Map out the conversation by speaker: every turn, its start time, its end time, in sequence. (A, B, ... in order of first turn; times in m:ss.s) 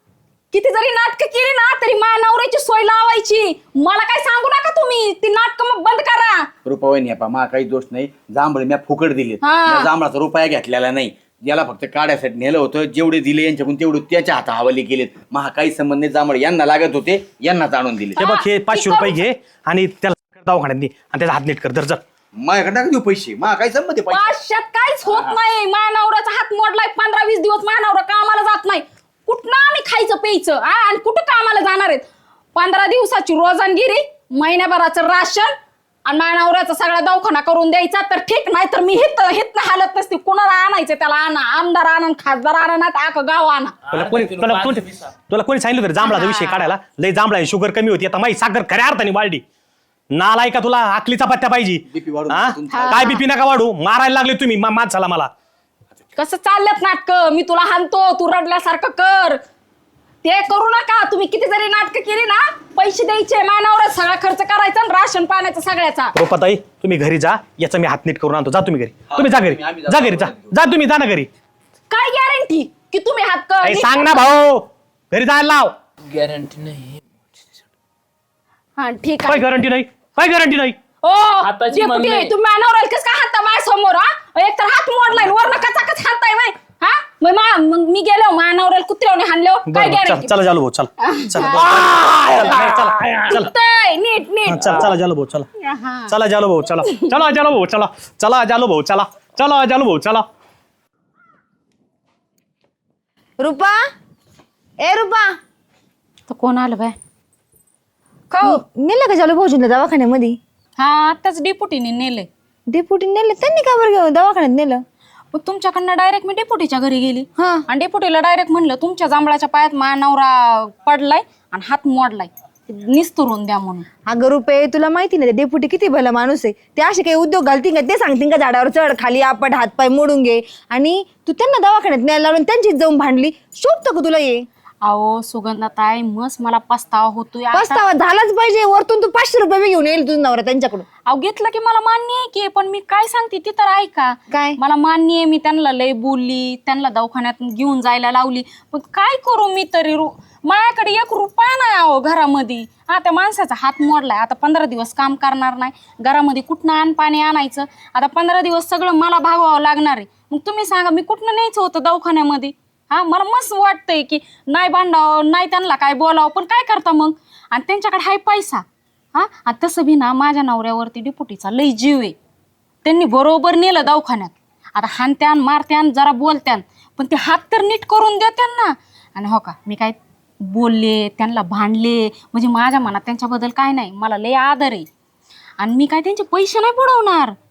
0:00.5-0:06.5 A
0:06.6-0:18.2 B
0:09.4-0:09.9 A
0:18.2-0:19.2 A
0:18.2-0:22.0 C
0:22.4-0:24.3 B
0:24.1-0:35.5 A
0:25.1-0:25.4 B
0:36.0-0:43.8 A
0:43.9-0:45.0 D
0:43.9-0:49.4 C
0:46.0-0:46.7 A
0:50.1-0:55.3 C
0:51.9-0:53.1 B
0:52.7-0:53.2 A
0:56.2-0:59.4 A
1:00.2-1:06.1 A
1:06.1-1:11.3 C
1:09.1-1:10.5 B
1:11.9-1:14.2 A
1:13.6-1:15.7 C
1:16.1-1:17.1 D
1:18.8-1:19.4 A
1:19.3-1:20.8 C
1:21.0-1:30.3 A
1:21.4-1:22.3 D
1:29.7-1:33.5 C
1:31.0-1:34.9 A
1:31.6-1:33.3 D
1:34.5-1:35.5 C
1:35.6-1:36.1 A
1:36.1-1:40.3 C
1:43.4-1:43.8 E
1:44.8-1:45.4 E
1:46.3-1:47.0 A
1:48.3-1:48.6 A
1:48.4-1:50.4 E
1:50.8-1:52.3 A
1:52.7-1:54.8 E
1:55.3-2:03.8 A
1:57.4-1:57.6 E
2:04.1-2:14.4 E
2:14.8-2:17.8 A
2:17.5-2:20.8 E
2:21.0-2:52.2 A
2:24.3-2:24.6 E
2:52.8-3:04.9 A
3:05.6-3:07.3 A